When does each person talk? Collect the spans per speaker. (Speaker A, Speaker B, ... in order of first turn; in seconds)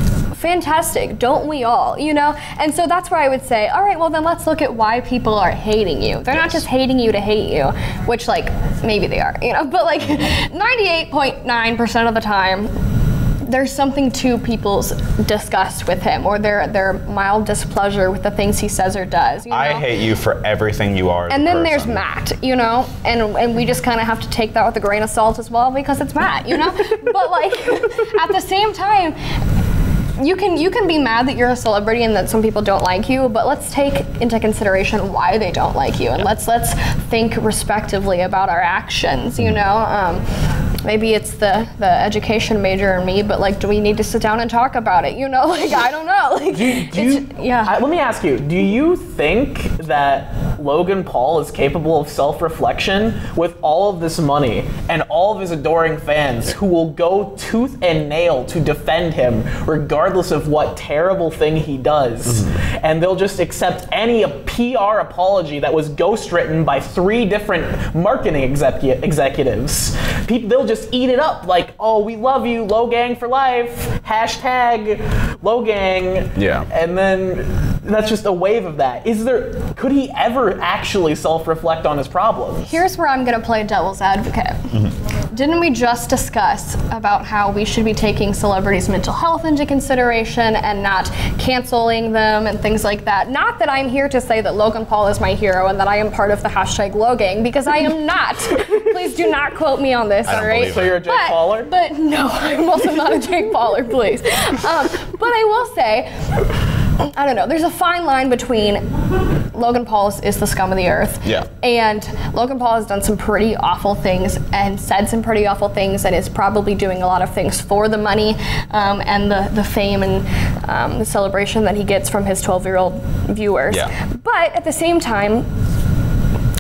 Speaker A: 0.3-12.7, 13.4-19.9, 21.3-29.2, 30.2-40.2, 40.9-47.7, 82.7-84.7, 85.3-106.1, 107.0-108.9, 109.5-125.5
Speaker B: 6.3-6.6, 19.5-22.0, 62.3-62.5, 76.4-76.7, 100.3-101.0
Speaker C: 46.5-82.8, 100.6-101.7